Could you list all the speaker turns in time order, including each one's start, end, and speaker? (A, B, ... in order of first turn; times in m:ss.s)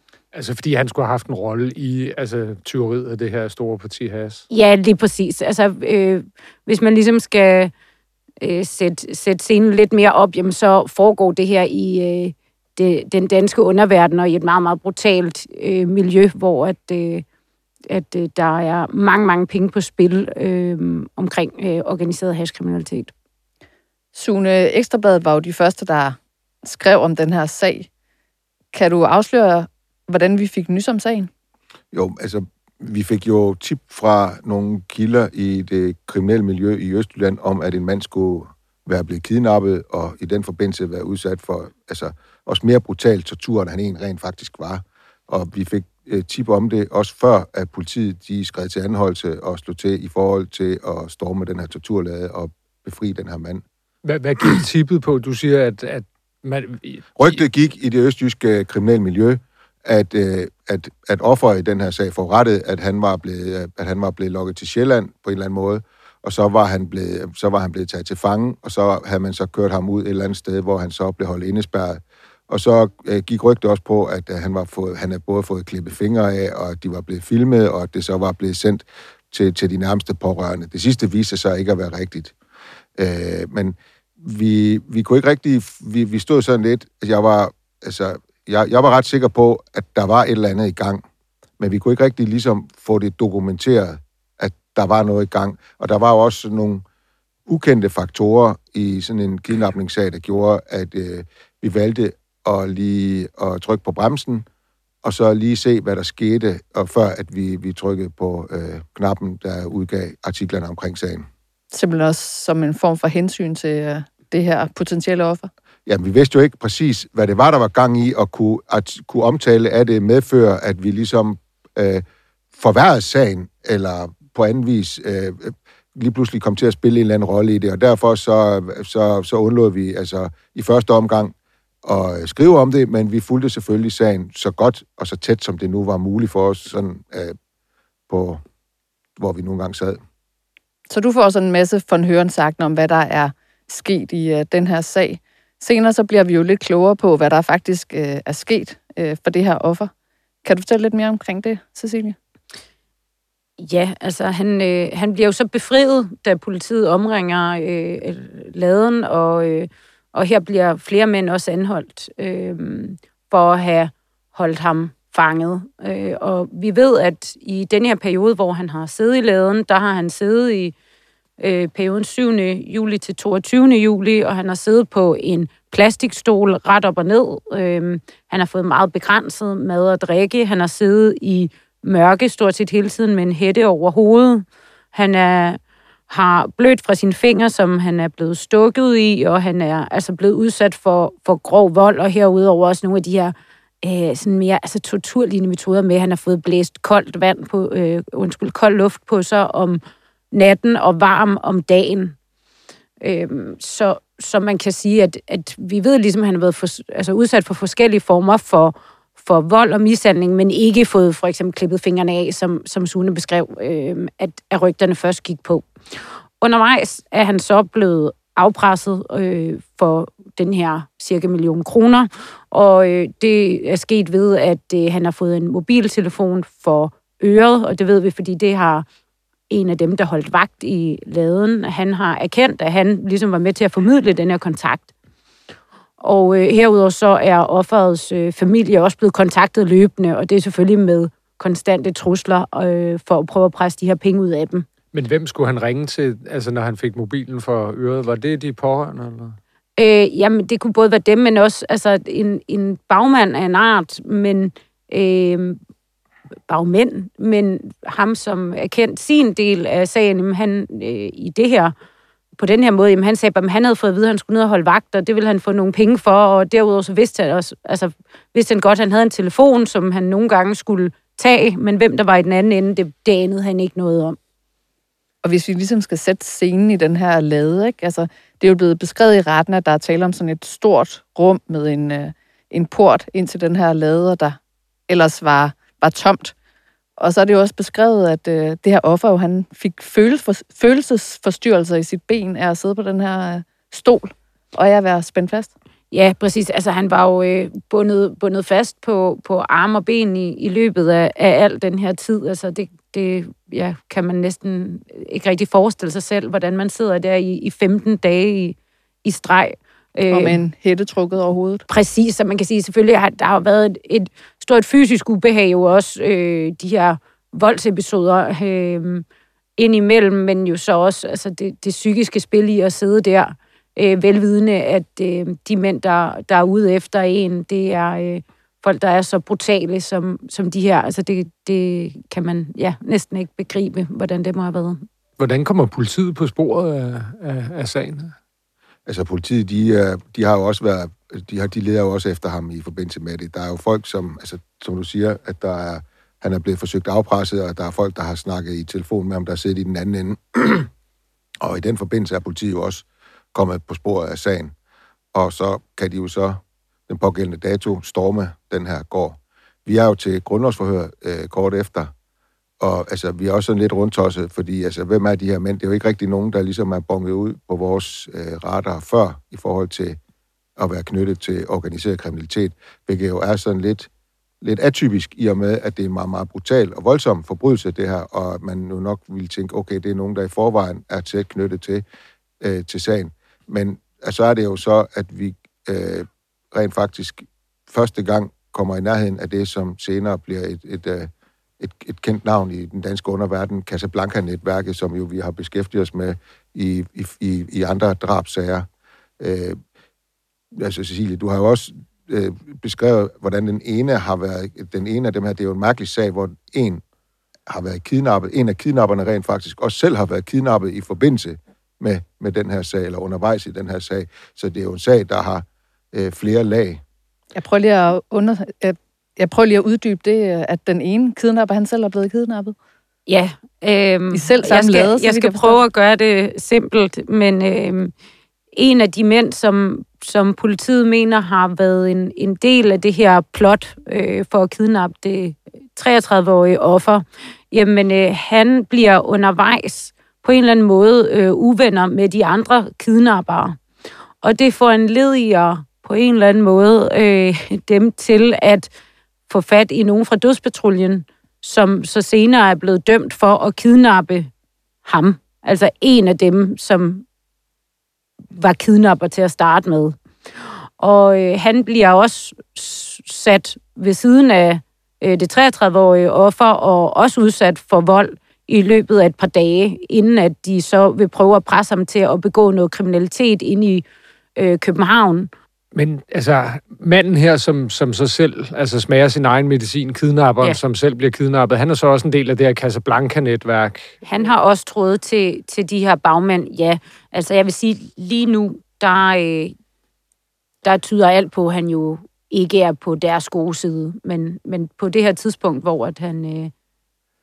0:00.3-0:04.4 A
0:04.5-0:07.7 B
0:08.4-0:17.2 B
0:17.9-0:23.1 B
0:24.2-0:27.9 C
0:28.7-0:31.3 C
0:31.9-0:53.6 D
0:54.0-0:57.4 A
0:57.2-1:22.3 D
1:23.0-1:31.0 D
1:31.6-1:36.8 D
1:37.5-1:44.4 D
1:45.0-1:51.3 D
1:51.7-1:55.5 C
1:55.9-2:02.0 D
2:02.6-2:11.3 D
2:11.8-2:17.3 D
2:18.1-2:18.4 D
2:19.2-2:20.0 D
2:20.9-2:29.9 C
2:30.4-2:32.1 C
2:33.6-2:50.8 B
2:51.4-3:19.8 B
3:20.3-3:22.2 B
3:23.0-3:35.6 B
3:36.4-3:48.8 B
3:49.5-3:54.9 B
3:56.0-4:04.7 B
4:04.9-4:09.4 A
4:09.8-4:15.6 B
4:16.5-4:21.7 B
4:22.4-4:34.2 B
4:35.2-4:44.4 C
4:44.9-4:46.3 C
4:47.0-4:55.5 C
4:55.9-5:10.4 B
5:10.1-5:11.6 C
5:11.7-5:19.0 B
5:19.6-5:34.8 B
5:35.2-5:38.2 A
5:38.9-5:50.7 D
5:51.4-5:54.5 D
5:55.1-6:01.9 D
6:02.6-6:10.0 D
6:10.6-6:13.9 D
6:14.4-6:21.8 D
6:22.4-6:38.7 D
6:39.2-6:39.6 D
6:40.6-6:46.8 D
6:47.5-6:56.8 D
6:57.3-7:02.5 C
7:03.1-7:07.9 B
7:04.1-7:05.6 C
7:08.5-7:23.6 B
7:24.2-7:28.7 B
7:29.3-7:34.3 B
7:34.8-7:37.0 B
7:38.3-7:40.0 B
7:40.8-7:53.8 B
7:54.4-7:55.3 B
7:55.7-8:04.0 A
8:04.0-8:09.6 B
8:10.6-8:16.5 B